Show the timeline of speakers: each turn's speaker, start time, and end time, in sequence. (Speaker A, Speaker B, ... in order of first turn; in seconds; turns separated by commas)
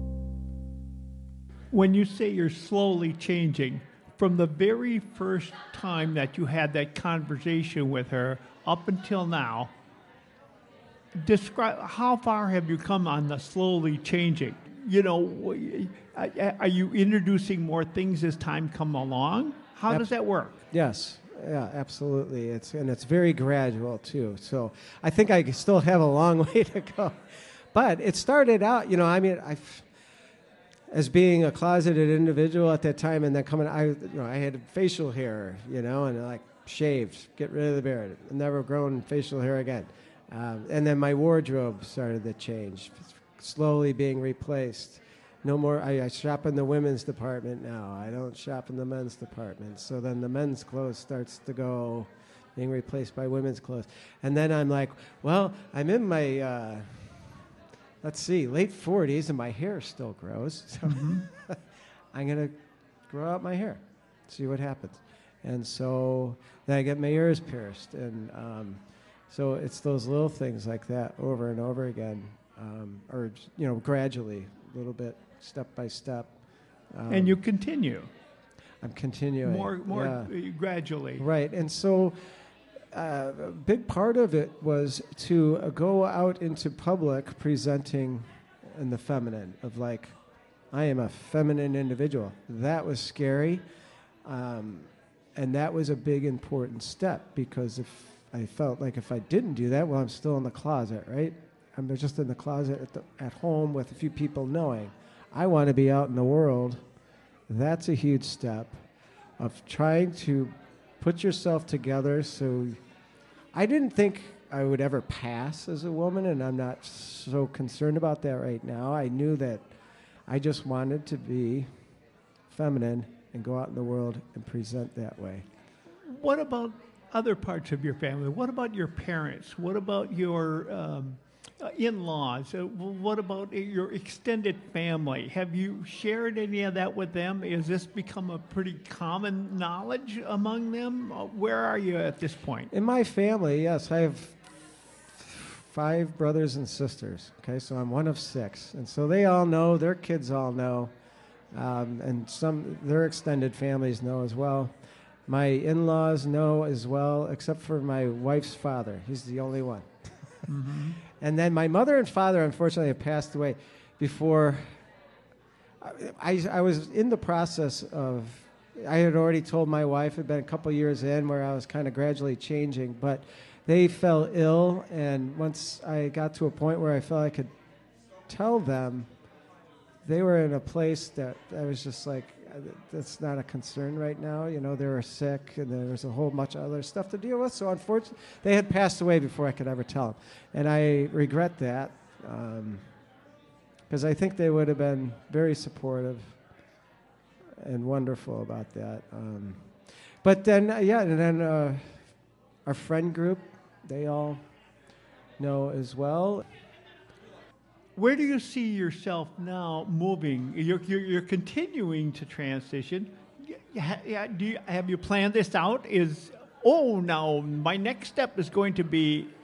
Speaker A: 1.7-9.7, Speaker A: 11.1-20.6, Speaker B: 20.7-29.9, Speaker B: 30.9-57.5, Speaker B: 58.0-61.6, Speaker A: 60.9-61.2, Speaker B: 62.1-62.5, Speaker B: 63.1-76.3, Speaker B: 76.9-77.4, Speaker A: 77.1-78.1, Speaker B: 78.8-80.3, Speaker A: 79.5-81.2, Speaker B: 81.2-82.2, Speaker B: 82.9-90.1, Speaker B: 90.7-93.6, Speaker B: 94.2-106.8, Speaker B: 107.5-108.8, Speaker B: 109.4-112.8, Speaker B: 113.5-119.7, Speaker B: 120.3-121.7, Speaker B: 122.5-125.5, Speaker A: 126.1-142.7, Speaker B: 142.7-144.4, Speaker B: 145.1-150.9, Speaker B: 151.5-154.8, Speaker B: 155.3-160.5, Speaker A: 160.5-161.0, Speaker B: 161.1-164.8, Speaker B: 165.8-177.5, Speaker B: 178.3-179.1, Speaker B: 180.0-192.8, Speaker B: 193.9-196.4, Speaker B: 197.6-202.0, Speaker B: 202.7-204.4, Speaker B: 205.4-206.4, Speaker A: 208.0-219.3